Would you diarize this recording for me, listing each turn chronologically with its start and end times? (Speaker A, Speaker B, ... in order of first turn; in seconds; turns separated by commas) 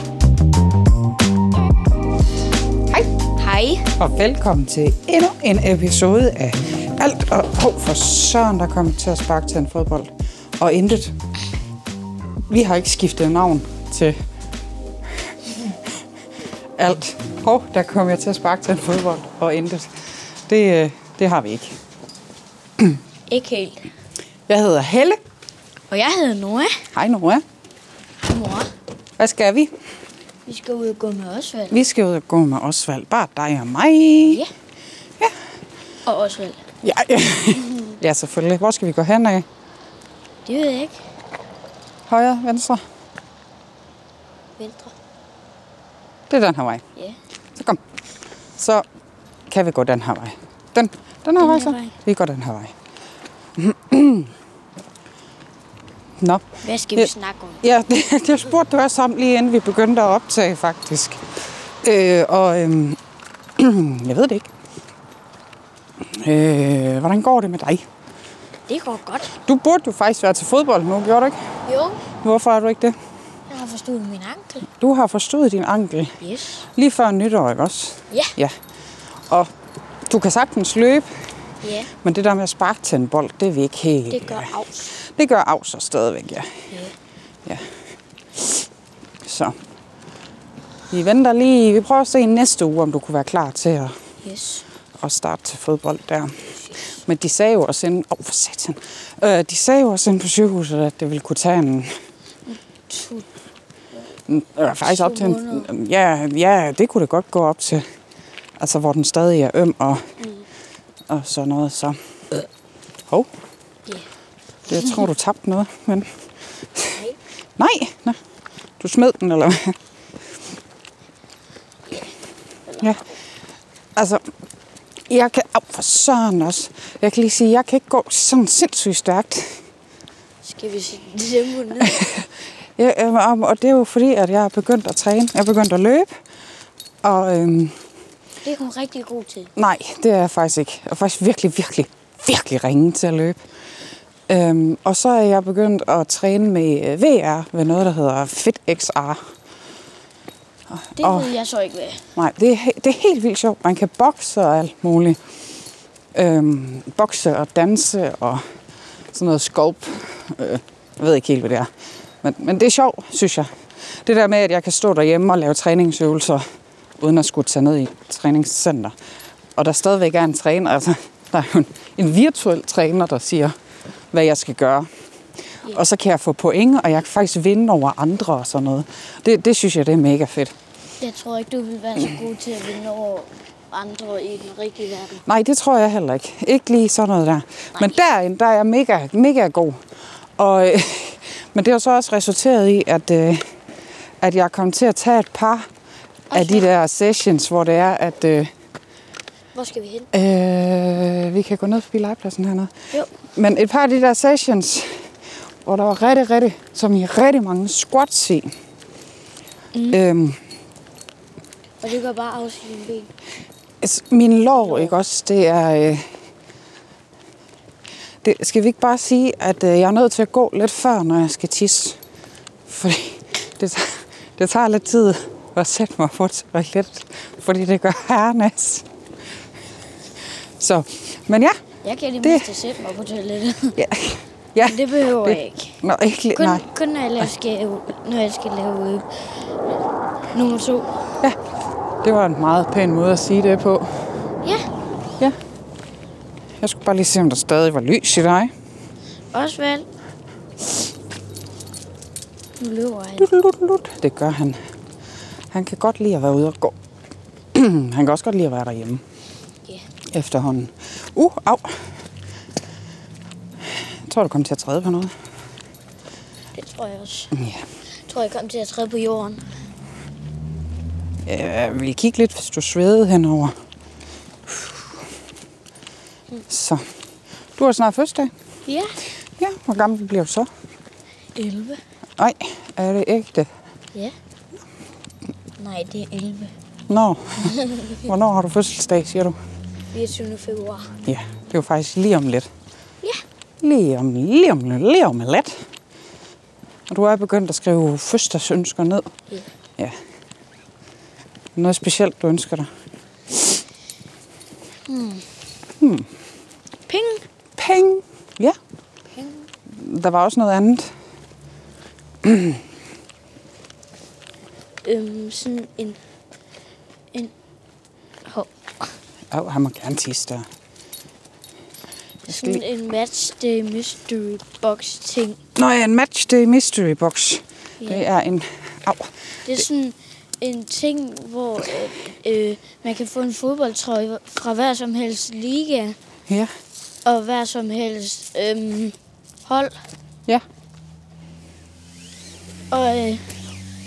Speaker A: 3.4-3.9, Speaker B: 4.0-11.1, Speaker B: 12.5-14.1, Speaker B: 16.8-19.9, Speaker B: 20.5-21.8, Speaker A: 23.3-23.9, Speaker B: 24.5-25.2, Speaker A: 25.9-26.8, Speaker B: 26.9-27.4, Speaker A: 28.2-28.7, Speaker B: 29.2-29.7, Speaker A: 30.4-31.8, Speaker B: 31.7-34.4, Speaker A: 34.2-34.5, Speaker A: 36.0-36.6, Speaker B: 36.8-39.4, Speaker A: 40.4-41.0, Speaker B: 42.1-42.8, Speaker A: 44.6-44.9, Speaker B: 46.3-46.8, Speaker B: 48.6-48.8, Speaker B: 49.5-52.7, Speaker A: 51.4-51.9, Speaker B: 53.6-54.3, Speaker A: 56.6-57.6, Speaker B: 57.6-61.2, Speaker B: 61.8-63.0, Speaker B: 63.6-64.5, Speaker B: 66.1-67.8, Speaker A: 68.7-69.3, Speaker B: 69.4-71.3, Speaker A: 71.7-72.0, Speaker B: 72.2-73.0, Speaker A: 73.5-74.7, Speaker B: 74.8-76.2, Speaker A: 76.2-76.6, Speaker B: 76.7-78.5, Speaker B: 80.1-81.1, Speaker A: 81.6-81.9, Speaker B: 82.0-86.5, Speaker A: 84.1-84.9, Speaker B: 89.2-89.5, Speaker B: 90.9-93.9, Speaker A: 94.2-94.6, Speaker B: 95.0-96.3, Speaker B: 97.0-101.9, Speaker A: 102.5-103.2, Speaker B: 104.3-107.8, Speaker A: 104.8-105.7, Speaker B: 108.6-110.0, Speaker B: 111.1-112.4, Speaker B: 114.7-116.1, Speaker B: 117.6-118.2, Speaker B: 118.8-119.8, Speaker A: 122.7-122.9, Speaker B: 124.0-124.2, Speaker B: 125.1-129.6, Speaker A: 130.4-132.1, Speaker B: 131.8-132.2, Speaker B: 132.8-136.1, Speaker B: 137.0-137.7, Speaker A: 138.4-139.5, Speaker B: 139.6-143.4, Speaker B: 144.3-149.2, Speaker B: 150.7-151.3, Speaker A: 151.0-152.0, Speaker B: 152.2-155.2, Speaker B: 156.1-158.4, Speaker B: 159.1-161.7, Speaker B: 162.2-163.5, Speaker B: 164.0-166.4, Speaker B: 167.0-168.9, Speaker B: 169.6-173.5, Speaker B: 174.1-174.9, Speaker B: 175.7-180.5, Speaker A: 181.0-185.2, Speaker B: 185.2-189.8, Speaker B: 190.4-193.4, Speaker B: 194.2-195.7, Speaker A: 196.3-196.7, Speaker B: 196.3-198.5, Speaker A: 199.5-200.1, Speaker B: 200.1-202.7, Speaker B: 203.3-204.9, Speaker B: 205.6-208.5, Speaker A: 209.7-210.0, Speaker B: 209.9-210.4, Speaker A: 211.8-213.1, Speaker B: 213.8-216.0, Speaker A: 214.6-214.9, Speaker B: 218.2-222.0, Speaker B: 222.7-228.8, Speaker B: 230.6-231.6, Speaker A: 231.8-233.8, Speaker B: 233.8-236.7, Speaker A: 234.6-235.8, Speaker A: 236.3-239.1, Speaker A: 240.3-240.9, Speaker B: 242.0-243.9, Speaker B: 246.6-248.5, Speaker A: 249.3-249.9, Speaker A: 252.6-253.3, Speaker B: 253.2-254.6, Speaker B: 255.5-256.7, Speaker B: 257.5-259.0, Speaker B: 260.1-261.8, Speaker B: 264.1-265.1, Speaker A: 266.5-267.3, Speaker B: 267.3-267.6, Speaker A: 268.1-269.4, Speaker B: 271.2-273.5, Speaker B: 274.5-274.8, Speaker B: 276.5-276.8, Speaker B: 277.6-278.3, Speaker A: 278.6-278.9, Speaker B: 279.4-280.5, Speaker A: 281.4-281.8, Speaker B: 282.2-283.5, Speaker A: 285.6-286.5, Speaker B: 286.9-289.4, Speaker A: 287.6-287.9, Speaker A: 289.9-290.9, Speaker B: 291.1-292.5, Speaker B: 293.6-295.6, Speaker B: 296.9-299.1, Speaker B: 301.6-302.7, Speaker A: 304.9-305.2, Speaker B: 305.8-306.1, Speaker A: 306.9-307.2, Speaker B: 307.6-308.6, Speaker A: 309.1-309.4, Speaker B: 309.7-310.9, Speaker B: 312.2-312.6, Speaker A: 314.8-316.0, Speaker B: 319.3-320.4, Speaker B: 322.3-322.6, Speaker A: 322.3-325.4, Speaker B: 325.5-329.6, Speaker A: 327.8-328.1, Speaker A: 329.4-336.0, Speaker A: 337.0-339.8, Speaker A: 342.7-343.2